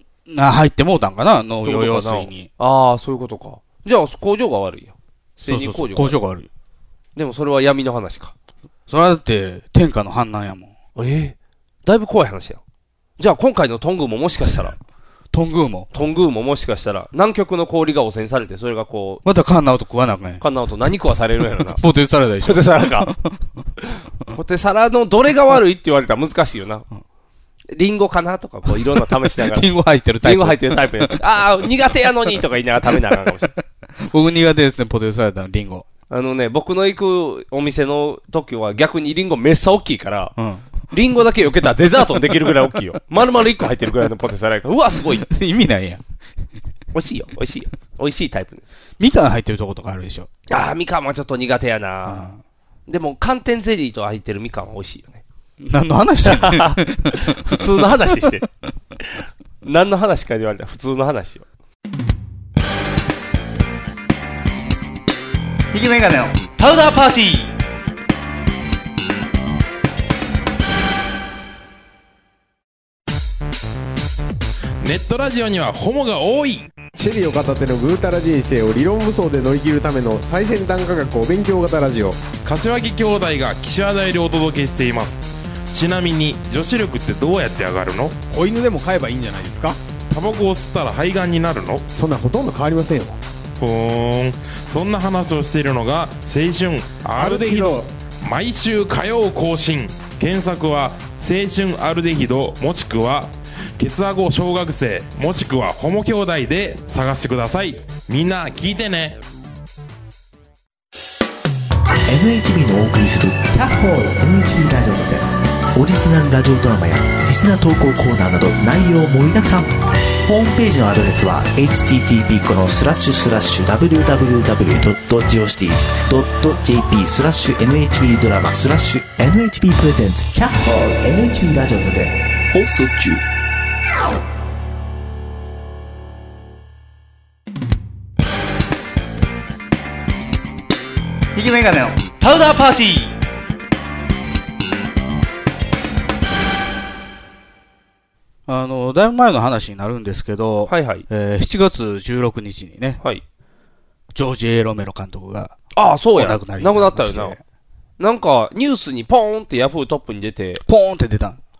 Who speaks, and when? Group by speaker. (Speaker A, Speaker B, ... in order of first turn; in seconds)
Speaker A: 0.3-2.5, 5.5-6.5, 8.9-10.7, 15.3-15.9, 19.2-20.4, 21.8-23.4, 29.4-31.2, 34.0-35.9, 40.4-40.7, 45.2-46.0, 49.0-50.3, 52.0-52.4, 55.6-58.3, 65.8-66.3, 148.5-153.0, 154.1-155.6, 156.2-157.4, 160.6-161.4
Speaker B: 1.6-6.2, 7.2-8.3, 11.0-12.6, 13.2-14.8, 15.9-19.2, 20.4-21.8, 22.4-23.1, 24.3-26.9, 27.7-29.7, 30.2-33.5, 36.1-40.4, 40.9-45.3, 46.9-48.7, 50.5-52.3, 52.9-55.2, 56.2-58.5, 59.6-61.5, 150.7-151.1, 155.8-157.4, 158.0-160.6
Speaker C: 74.8-76.8, 82.4-88.2, 90.1-91.8, 93.6-109.2
Speaker D: 77.0-82.2, 88.3-89.8, 91.9-93.2, 97.1-97.9
Speaker E: 112.1-132.2, 141.4-141.9